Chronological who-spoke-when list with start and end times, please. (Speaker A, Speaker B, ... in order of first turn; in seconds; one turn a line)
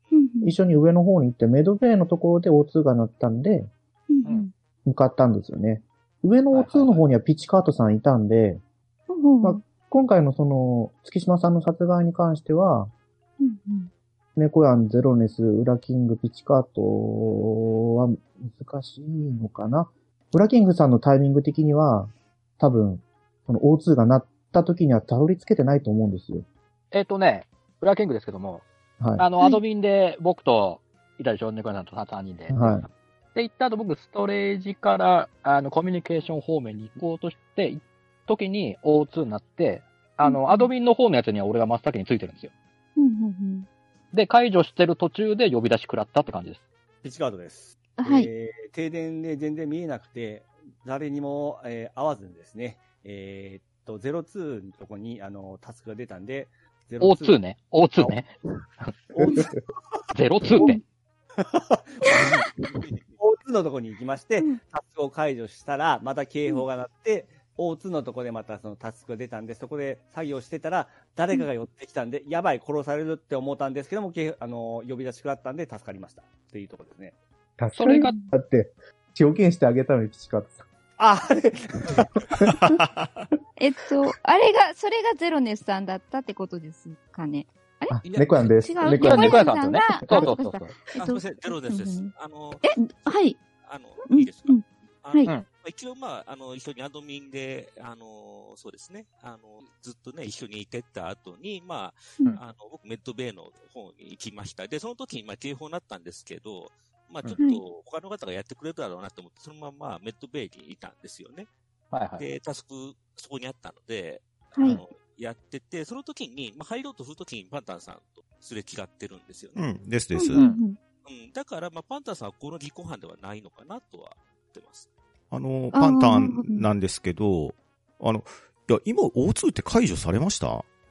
Speaker A: 0.1-0.5
Speaker B: 0.4-3.7
Speaker A: 4.1-4.5
Speaker B: 4.8-8.6
Speaker C: 6.5-7.0
Speaker A: 9.1-9.6
Speaker B: 9.4-12.9
Speaker A: 13.4-13.9
Speaker B: 14.3-26.4
Speaker C: 26.9-28.6
Speaker B: 29.0-29.2
Speaker C: 29.2-42.5
Speaker B: 32.5-32.9
Speaker A: 40.2-40.7
Speaker A: 43.0-43.7
Speaker C: 44.1-46.6
Speaker D: 47.0-57.4
Speaker A: 48.0-48.3
Speaker C: 57.0-58.9
Speaker D: 59.2-59.4
Speaker C: 60.1-60.8
Speaker D: 62.1-62.3
Speaker E: 62.8-63.1
Speaker D: 63.2-77.2
Speaker B: 77.6-80.6
Speaker C: 77.7-78.2
Speaker B: 82.3-82.5
Speaker F: 82.7-83.1
Speaker A: 83.6-88.0
Speaker B: 87.9-89.5
Speaker E: 88.1-88.5
Speaker A: 88.6-92.1
Speaker C: 88.9-90.8
Speaker E: 90.9-111.5
Speaker A: 92.6-93.4
Speaker A: 94.1-95.3
Speaker C: 111.9-112.2
Speaker E: 112.2-119.7
Speaker F: 119.5-120.4
Speaker A: 120.1-120.8
Speaker C: 120.3-120.6
Speaker E: 121.0-124.9
Speaker F: 125.3-130.7
Speaker A: 125.7-126.7